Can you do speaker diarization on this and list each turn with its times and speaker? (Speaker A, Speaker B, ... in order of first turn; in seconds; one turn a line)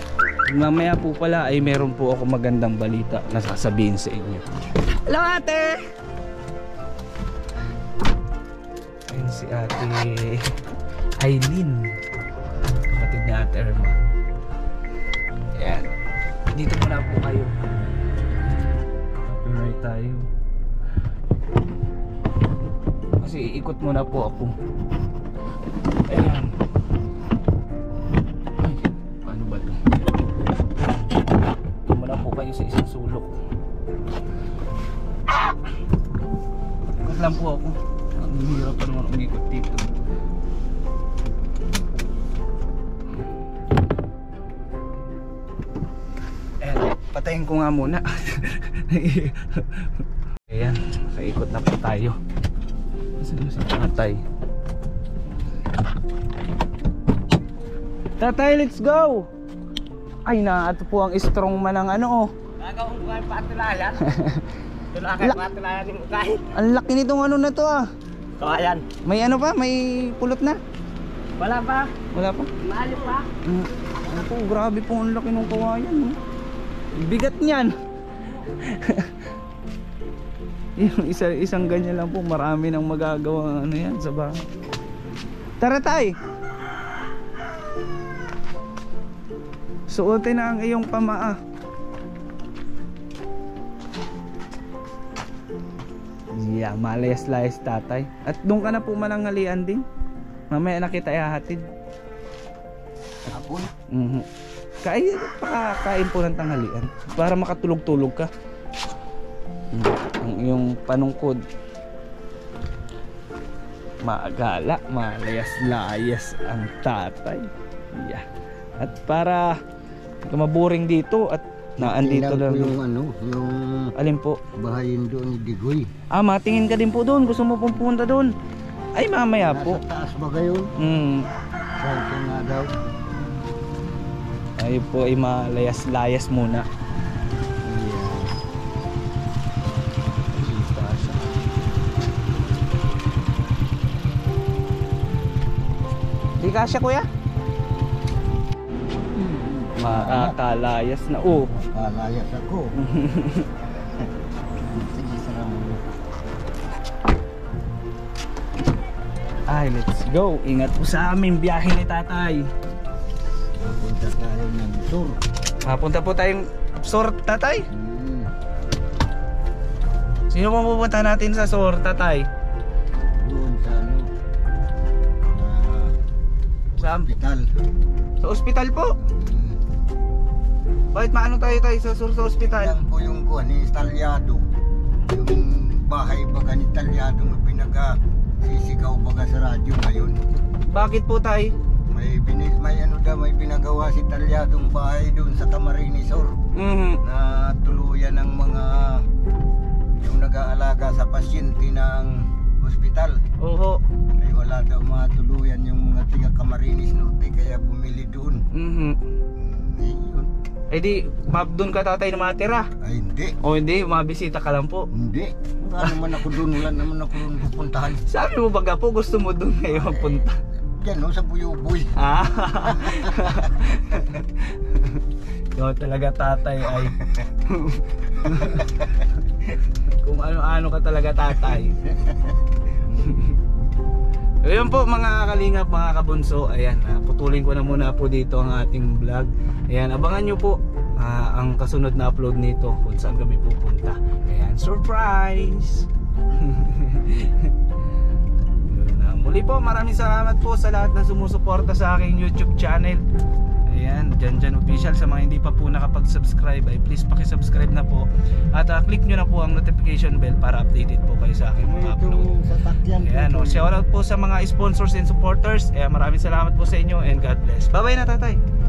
Speaker A: 0.5-5.8
Speaker A: 9.1-10.4
Speaker A: 11.2-11.8
Speaker A: 12.9-14.0
Speaker A: 15.5-15.9
Speaker A: 16.5-17.7
Speaker A: 19.2-20.3
Speaker A: 23.2-24.5
Speaker A: 26.1-26.5
Speaker A: 28.6-29.9
Speaker A: 31.9-33.3
Speaker A: 37.0-39.9
Speaker A: 46.6-52.2
Speaker A: 53.2-54.2
Speaker A: 58.2-59.3
Speaker A: 60.2-62.3
Speaker B: 62.6-64.0
Speaker A: 64.0-64.4
Speaker B: 64.9-66.5
Speaker A: 66.5-67.8
Speaker B: 68.4-68.9
Speaker A: 69.0-70.6
Speaker B: 71.4-72.0
Speaker A: 72.1-72.5
Speaker B: 72.6-73.3
Speaker A: 73.4-76.2
Speaker A: 77.0-77.7
Speaker A: 78.6-79.2
Speaker A: 80.8-84.4
Speaker A: 85.6-86.1
Speaker A: 89.9-91.4
Speaker A: 96.3-99.8
Speaker A: 100.5-101.6
Speaker C: 103.3-103.7
Speaker A: 103.9-104.3
Speaker A: 104.8-108.3
Speaker A: 109.7-111.4
Speaker A: 114.0-118.2
Speaker A: 118.8-119.6
Speaker A: 120.2-122.7
Speaker C: 121.8-123.9
Speaker A: 124.0-124.4
Speaker C: 124.6-125.9
Speaker A: 126.1-128.3
Speaker A: 128.9-129.8
Speaker C: 129.4-130.7
Speaker A: 130.8-131.3
Speaker C: 131.8-132.7
Speaker A: 134.6-136.7
Speaker C: 137.6-138.3
Speaker A: 140.3-141.3
Speaker A: 146.4-147.1
Speaker A: 149.2-151.5
Speaker C: 149.8-150.4
Speaker C: 151.3-152.7
Speaker A: 152.8-153.5
Speaker C: 154.7-156.0
Speaker A: 159.5-162.5
Speaker C: 163.6-165.2
Speaker A: 165.6-167.7
Speaker C: 167.7-168.3
Speaker A: 170.3-172.3
Speaker C: 173.2-174.1
Speaker C: 175.3-175.9
Speaker C: 176.8-177.5
Speaker A: 176.8-177.1
Speaker A: 178.2-178.9
Speaker C: 179.0-179.6
Speaker A: 180.9-182.8
Speaker C: 182.3-184.4
Speaker C: 185.1-190.2
Speaker A: 190.7-191.5
Speaker C: 191.9-196.4
Speaker A: 196.5-197.0
Speaker C: 197.0-199.0
Speaker C: 200.0-203.2
Speaker A: 203.4-203.8
Speaker C: 204.2-208.4
Speaker A: 208.5-209.0
Speaker C: 209.3-210.3
Speaker A: 210.7-212.7
Speaker C: 212.8-213.3
Speaker A: 213.4-214.9
Speaker C: 214.9-218.0
Speaker A: 215.8-216.3
Speaker A: 218.0-220.4
Speaker C: 219.7-222.0
Speaker A: 221.9-228.9
Speaker C: 222.5-223.4
Speaker A: 229.8-231.8
Speaker C: 231.9-232.2
Speaker A: 232.9-233.3
Speaker A: 234.4-247.5
Speaker A: 248.5-253.0
Speaker A: 253.7-262.3
Speaker C: 261.6-263.7
Speaker A: 263.0-268.4